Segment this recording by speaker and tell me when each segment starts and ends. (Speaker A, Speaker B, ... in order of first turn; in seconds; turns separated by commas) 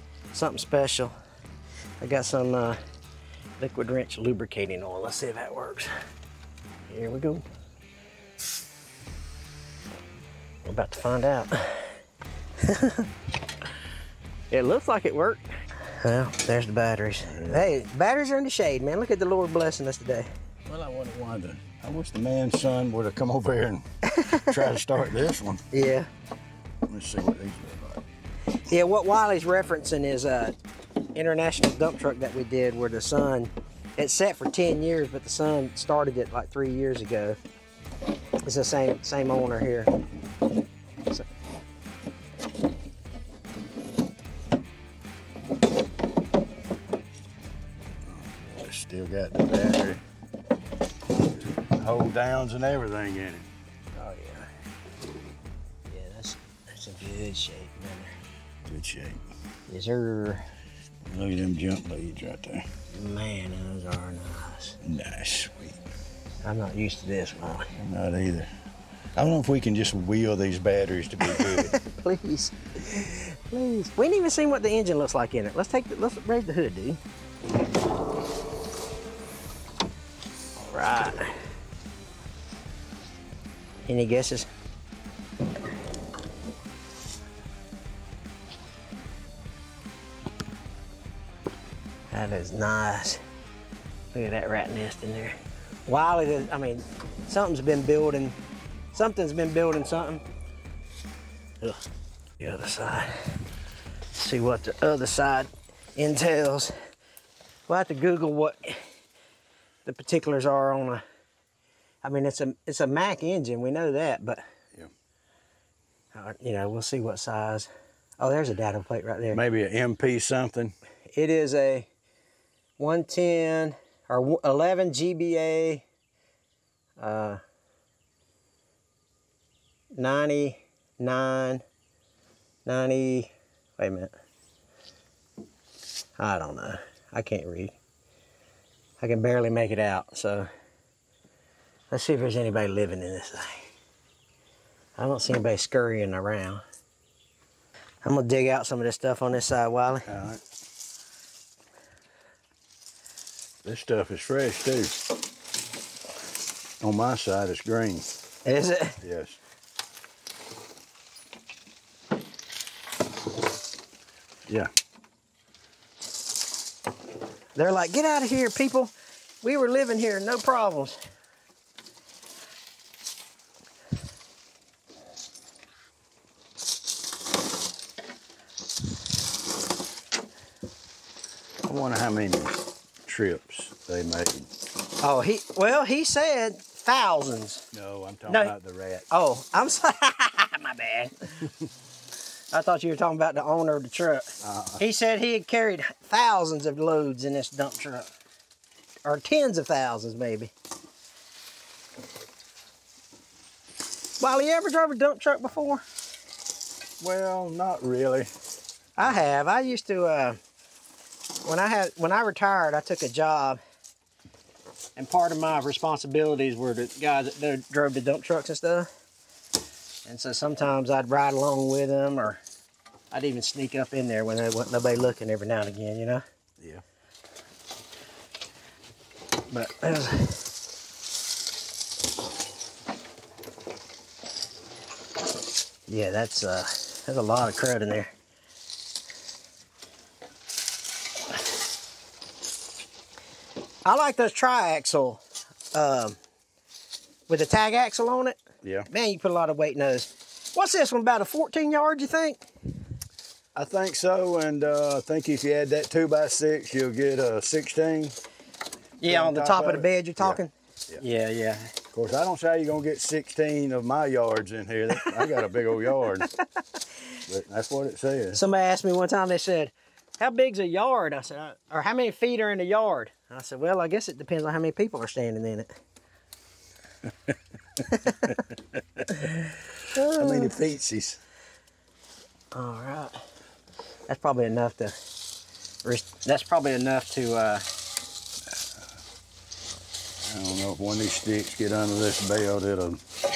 Speaker A: 0.3-1.1, Speaker A: 2.0-2.8, Speaker A: 3.6-5.9, Speaker A: 6.9-7.5, Speaker A: 10.7-12.0, Speaker A: 12.6-13.1, Speaker A: 14.5-20.3, Speaker B: 17.3-17.7, Speaker B: 20.7-25.6, Speaker A: 24.1-24.6, Speaker A: 25.7-26.1, Speaker B: 26.9-28.0, Speaker A: 28.7-30.6, Speaker A: 31.1-37.4, Speaker A: 38.4-39.9, Speaker B: 48.1-50.0, Speaker B: 51.8-53.5, Speaker A: 54.0-54.5, Speaker A: 55.9-58.1, Speaker B: 58.7-59.2, Speaker A: 59.7-60.5, Speaker B: 61.1-62.7, Speaker A: 62.9-64.8, Speaker B: 64.8-65.8, Speaker A: 66.4-67.7, Speaker B: 67.8-68.5, Speaker B: 69.2-71.8, Speaker A: 71.3-77.0, Speaker A: 80.6-81.4, Speaker A: 83.9-84.5, Speaker A: 92.1-93.2, Speaker A: 94.1-98.4, Speaker A: 98.9-100.2, Speaker A: 102.4-103.4, Speaker A: 104.1-106.8, Speaker A: 107.7-108.9, Speaker A: 109.9-111.0, Speaker A: 112.0-114.4, Speaker A: 116.1-119.4, Speaker B: 119.3-120.8, Speaker A: 121.1-121.9, Speaker A: 122.8-125.8, Speaker A: 127.0-127.4, Speaker A: 129.9-131.6, Speaker A: 132.7-134.1, Speaker A: 136.2-137.8, Speaker A: 139.0-140.5, Speaker A: 141.9-143.7, Speaker A: 145.0-146.6, Speaker A: 148.0-150.1, Speaker B: 150.1-150.4, Speaker B: 153.6-155.0, Speaker B: 156.8-158.1, Speaker A: 158.4-159.0, Speaker B: 159.0-159.4, Speaker A: 167.6-171.0, Speaker B: 181.6-184.5, Speaker A: 185.0-187.7, Speaker B: 187.7-189.1, Speaker A: 188.3-188.5, Speaker A: 189.1-191.5, Speaker A: 192.5-198.1, Speaker B: 194.4-194.8, Speaker A: 199.1-200.5, Speaker A: 204.2-205.8, Speaker B: 207.0-208.3, Speaker A: 209.0-210.4, Speaker A: 211.4-213.6, Speaker A: 215.0-218.9, Speaker A: 220.1-222.4, Speaker A: 223.1-226.2, Speaker A: 229.5-230.5, Speaker A: 235.9-238.1, Speaker A: 243.8-245.2, Speaker A: 245.7-246.2, Speaker A: 247.3-252.4, Speaker B: 248.6-248.9, Speaker B: 253.5-258.1, Speaker A: 259.0-261.8, Speaker B: 259.1-261.0, Speaker B: 261.9-266.3, Speaker A: 265.0-265.4, Speaker B: 267.3-268.4, Speaker A: 268.3-275.7, Speaker A: 277.9-278.4, Speaker B: 278.1-279.1, Speaker A: 279.9-280.6, Speaker B: 280.0-281.2, Speaker A: 282.5-283.2, Speaker A: 284.1-285.0, Speaker A: 285.8-287.7, Speaker B: 290.2-293.0